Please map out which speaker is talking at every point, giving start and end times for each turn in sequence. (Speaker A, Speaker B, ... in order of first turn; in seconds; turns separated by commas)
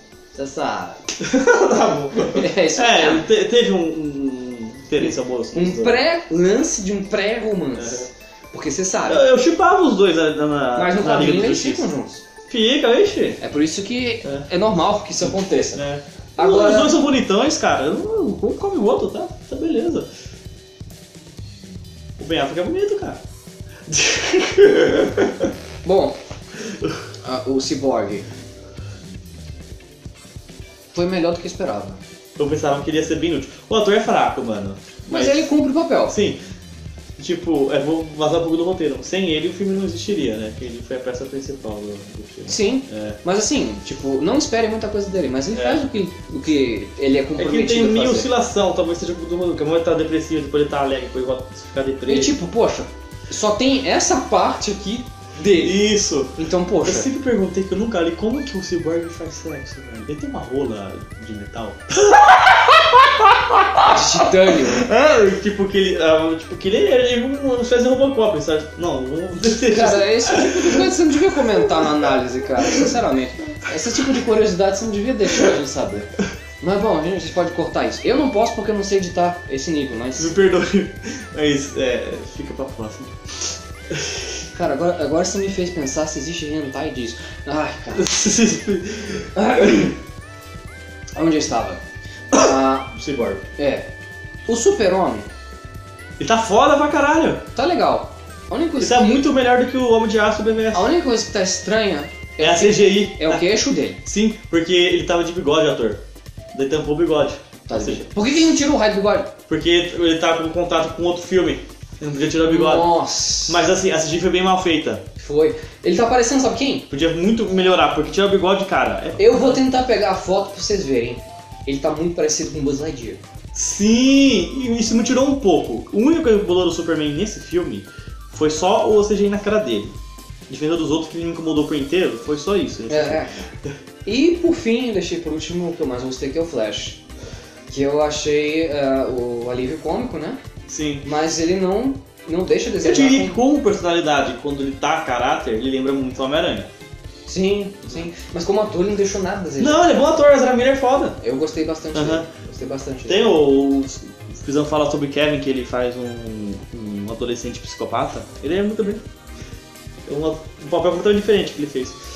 Speaker A: 0.3-1.0, Speaker B: 1.2-6.0, Speaker A: 2.1-3.3, Speaker A: 5.0-9.2, Speaker B: 7.8-8.0, Speaker B: 9.1-11.8, Speaker A: 10.7-12.2, Speaker B: 12.5-13.4, Speaker A: 13.4-15.8, Speaker B: 15.2-20.1, Speaker A: 16.4-16.9, Speaker B: 22.2-23.2, Speaker B: 23.9-25.5, Speaker A: 25.8-26.2, Speaker A: 27.2-28.3, Speaker A: 30.9-32.0, Speaker B: 32.4-35.5, Speaker A: 35.1-36.1, Speaker B: 36.1-36.4, Speaker B: 37.2-43.2, Speaker A: 42.5-48.3, Speaker B: 45.5-45.8, Speaker B: 47.4-52.4, Speaker A: 52.1-57.1, Speaker B: 55.5-72.1, Speaker A: 63.8-64.9, Speaker A: 69.5-76.1, Speaker A: 76.6-80.4, Speaker B: 80.2-84.3, Speaker A: 84.5-88.1, Speaker B: 87.9-89.9, Speaker A: 89.3-89.9, Speaker A: 91.2-91.8, Speaker A: 92.3-92.9, Speaker B: 92.3-93.4, Speaker A: 93.5-93.9, Speaker A: 94.5-95.3, Speaker B: 96.2-97.4, Speaker A: 97.5-99.2, Speaker B: 98.8-100.9, Speaker A: 100.7-104.0, Speaker B: 102.4-103.5, Speaker B: 104.0-108.1, Speaker A: 107.7-109.3, Speaker B: 109.5-112.9, Speaker A: 112.4-113.6, Speaker B: 113.5-115.0, Speaker A: 115.2-116.9, Speaker B: 116.9-119.6, Speaker A: 119.2-123.2, Speaker B: 123.5-129.9, Speaker B: 130.5-133.2, Speaker A: 132.9-133.5, Speaker A: 134.0-137.0, Speaker A: 137.7-140.4, Speaker B: 140.7-141.1, Speaker A: 141.0-143.4, Speaker B: 142.8-146.7, Speaker A: 147.2-149.9, Speaker B: 149.6-151.2, Speaker A: 151.2-153.3, Speaker B: 151.9-152.3, Speaker B: 153.1-159.0, Speaker B: 160.1-162.0